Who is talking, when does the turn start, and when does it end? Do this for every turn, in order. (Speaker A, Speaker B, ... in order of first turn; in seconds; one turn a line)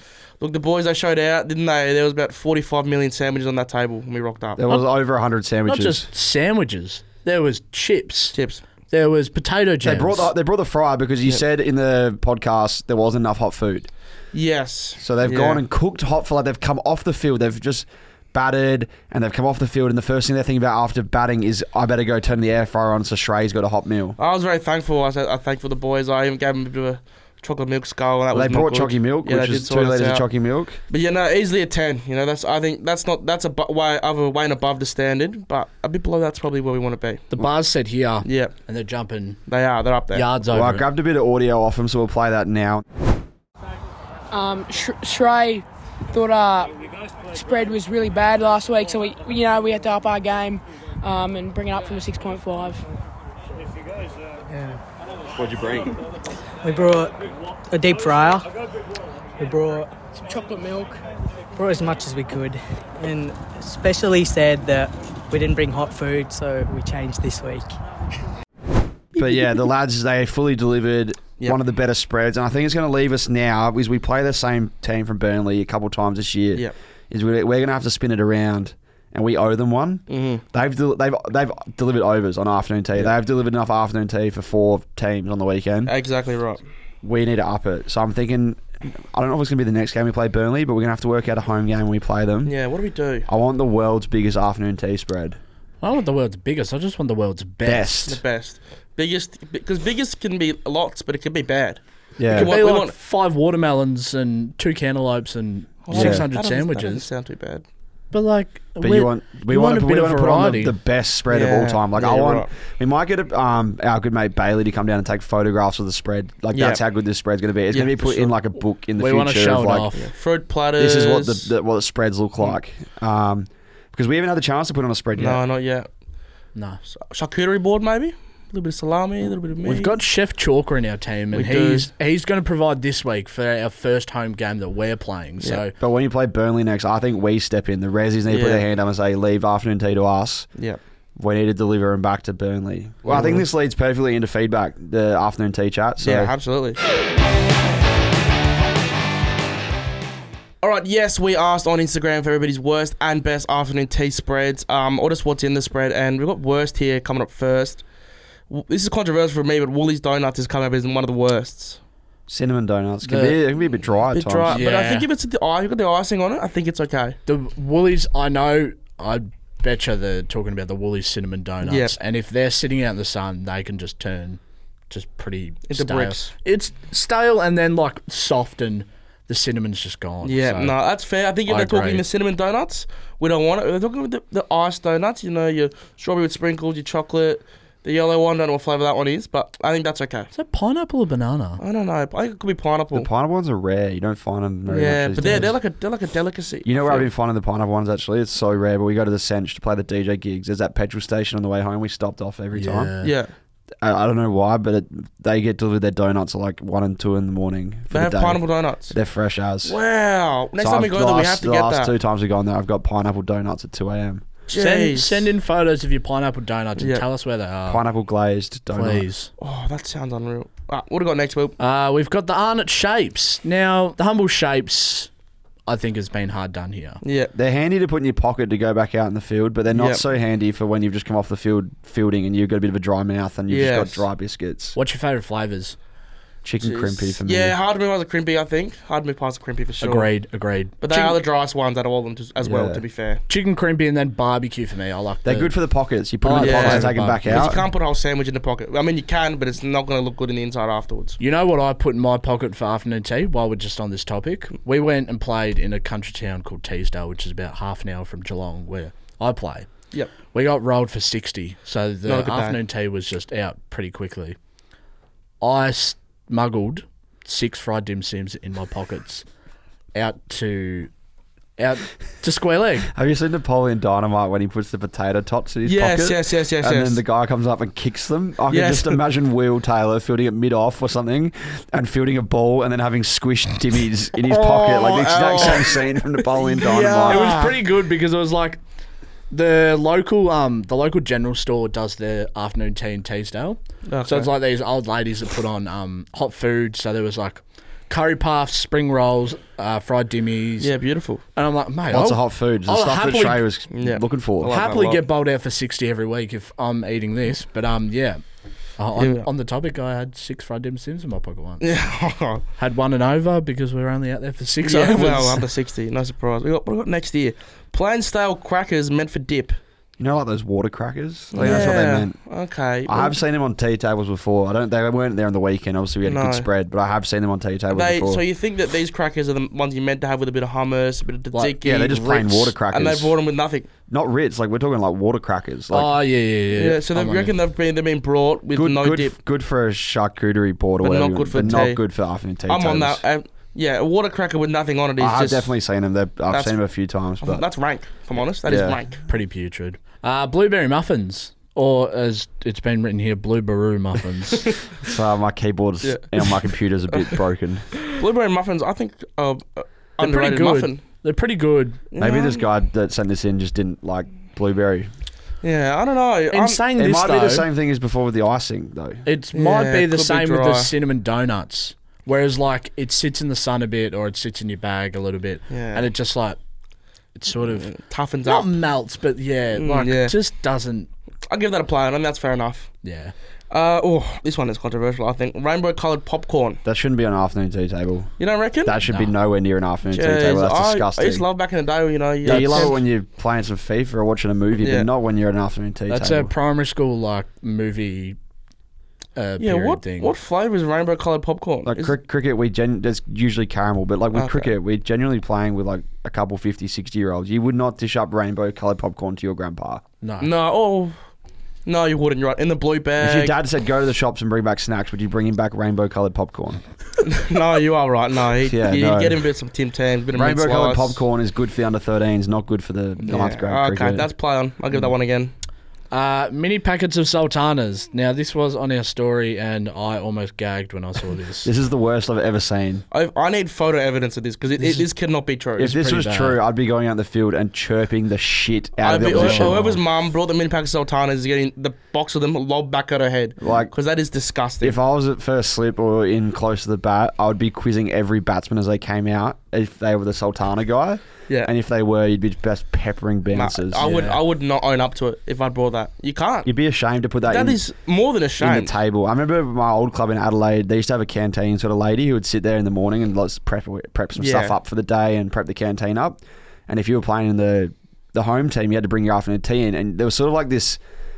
Speaker A: 0.4-4.7
Speaker B: 4.6-6.1
Speaker C: 5.7-8.4
Speaker A: 8.3-8.6
Speaker C: 8.9-10.3
Speaker B: 9.8-13.9
Speaker A: 14.3-15.6
Speaker B: 15.0-24.2
Speaker A: 24.2-30.3
Speaker B: 28.3-30.8
Speaker A: 30.9-37.3
Speaker C: 37.3-39.4
Speaker A: 38.2-38.5
Speaker A: 39.5-40.3
Speaker C: 40.1-40.9
Speaker B: 40.5-42.8
Speaker D: 44.3-46.8
Speaker D: 47.3-52.8
Speaker E: 54.5-54.8
Speaker B: 55.3-55.9
Speaker E: 56.6-57.2
Speaker E: 57.7-58.5
Speaker E: 59.4-59.9
Speaker D: 60.1-61.0
Speaker E: 61.6-67.7
Speaker B: 69.2-85.9
Speaker A: 80.1-80.4
Speaker A: 85.9-86.6
Speaker B: 87.0-92.5
Speaker A: 92.5-93.3
Speaker B: 93.3-95.4
Speaker C: 95.8-98.1
Speaker B: 97.6-98.2
Speaker A: 98.1-102.9
Speaker B: 102.2-102.5
Speaker C: 102.3-107.1
Speaker A: 105.9-107.7
Speaker B: 105.9-106.2
Speaker C: 108.1-110.8
Speaker B: 108.8-119.9
Speaker A: 111.3-112.5
Speaker A: 116.5-116.8
Speaker A: 117.7-118.3
Speaker C: 119.0-120.1
Speaker A: 120.0-121.5
Speaker B: 120.8-125.4
Speaker A: 125.2-125.9
Speaker C: 126.5-126.8
Speaker A: 126.9-130.0
Speaker C: 129.6-135.7
Speaker A: 131.3-131.9
Speaker B: 135.8-140.5
Speaker A: 138.3-138.7
Speaker B: 141.2-146.3
Speaker A: 143.1-143.4
Speaker A: 146.0-146.8
Speaker A: 150.6-157.8
Speaker A: 158.5-161.8
Speaker B: 162.3-164.6
Speaker C: 163.0-163.4
Speaker A: 164.1-167.2
Speaker C: 164.5-165.1
Speaker C: 167.3-180.8
Speaker A: 171.7-171.9
Speaker A: 175.7-176.3
Speaker A: 180.2-190.3
Speaker C: 181.5-182.1
Speaker C: 190.3-191.6
Speaker A: 191.6-193.1
Speaker B: 192.9-195.6
Speaker A: 194.7-197.1
Speaker C: 195.2-195.5
Speaker B: 196.7-202.9
Speaker C: 202.5-203.2
Speaker A: 203.0-203.3
Speaker B: 203.8-209.8
Speaker A: 207.9-209.0
Speaker A: 209.6-211.9
Speaker B: 210.6-214.2
Speaker A: 214.5-215.3
Speaker C: 214.5-217.8
Speaker A: 216.8-217.0
Speaker B: 217.7-219.1
Speaker C: 218.7-219.3
Speaker A: 219.4-221.6
Speaker C: 221.6-225.1
Speaker C: 225.7-227.0
Speaker A: 227.0-227.3
Speaker B: 227.3-234.8
Speaker A: 229.7-230.0
Speaker A: 233.5-234.0
Speaker C: 234.8-235.8
Speaker B: 236.4-237.6
Speaker A: 236.6-240.1
Speaker C: 239.8-241.2
Speaker A: 240.8-243.2
Speaker B: 242.4-242.8
Speaker C: 243.3-245.5
Speaker B: 245.2-247.6
Speaker C: 246.2-247.6
Speaker A: 246.4-251.2
Speaker C: 251.2-259.7
Speaker C: 260.3-264.4
Speaker A: 262.1-262.6
Speaker C: 265.4-269.3
Speaker C: 269.9-270.9
Speaker C: 271.6-272.9
Speaker B: 272.9-287.4
Speaker A: 275.6-277.0
Speaker A: 278.5-279.0
Speaker A: 284.2-287.6
Speaker C: 287.1-288.6
Speaker C: 289.3-300.7
Speaker A: 293.9-294.3
Speaker A: 300.6-301.2
Speaker C: 301.3-303.5
Speaker B: 301.9-304.5
Speaker A: 303.7-305.0
Speaker C: 304.4-308.2
Speaker C: 308.8-311.7
Speaker A: 309.0-309.3
Speaker A: 311.6-312.4
Speaker C: 312.6-315.4
Speaker A: 314.6-319.6
Speaker B: 320.0-322.2
Speaker A: 321.3-323.2
Speaker C: 321.4-321.7
Speaker B: 322.9-328.2
Speaker A: 326.0-326.5
Speaker A: 327.7-333.7
Speaker B: 331.6-333.2
Speaker B: 333.9-335.9
Speaker C: 335.7-337.3
Speaker A: 336.6-339.1
Speaker B: 338.5-343.0
Speaker A: 340.8-341.8
Speaker A: 342.5-345.5
Speaker B: 345.0-347.4
Speaker A: 346.3-346.6
Speaker A: 347.2-349.0
Speaker B: 348.4-348.8
Speaker C: 349.1-354.5
Speaker B: 354.8-357.8
Speaker A: 355.8-357.2
Speaker A: 357.9-360.8
Speaker C: 360.0-361.8
Speaker A: 361.9-362.4
Speaker B: 362.0-364.9
Speaker A: 365.4-366.6
Speaker C: 366.3-367.5
Speaker B: 366.8-369.1
Speaker C: 369.1-376.4
Speaker A: 369.3-370.7
Speaker A: 375.5-375.9
Speaker C: 377.1-377.7
Speaker A: 377.4-378.6
Speaker C: 378.2-380.9
Speaker A: 379.6-380.2
Speaker A: 381.3-382.7
Speaker C: 382.8-383.1
Speaker A: 383.5-386.6
Speaker B: 386.6-388.1
Speaker A: 388.2-388.8
Speaker B: 388.6-391.2
Speaker C: 388.8-389.1
Speaker A: 389.9-392.8
Speaker B: 392.2-396.3
Speaker C: 392.3-392.7
Speaker A: 394.6-394.9
Speaker C: 395.9-398.2
Speaker C: 399.2-400.1
Speaker A: 399.4-401.9
Speaker B: 401.7-409.8
Speaker A: 404.1-404.5
Speaker C: 410.0-410.3
Speaker A: 410.2-411.0
Speaker A: 411.6-413.4
Speaker B: 413.0-416.6
Speaker A: 417.0-421.0
Speaker B: 418.4-419.2
Speaker B: 420.1-424.1
Speaker A: 423.1-425.3
Speaker C: 425.9-431.5
Speaker B: 431.4-432.8
Speaker A: 432.9-435.7
Speaker C: 434.6-434.9
Speaker B: 435.6-439.6
Speaker C: 435.6-436.4
Speaker A: 438.8-444.8
Speaker C: 439.1-439.8
Speaker B: 443.4-443.7
Speaker B: 444.6-453.9
Speaker A: 453.3-456.5
Speaker C: 453.8-454.2
Speaker B: 456.4-457.6
Speaker A: 457.3-458.7
Speaker B: 458.4-470.8
Speaker A: 464.2-464.6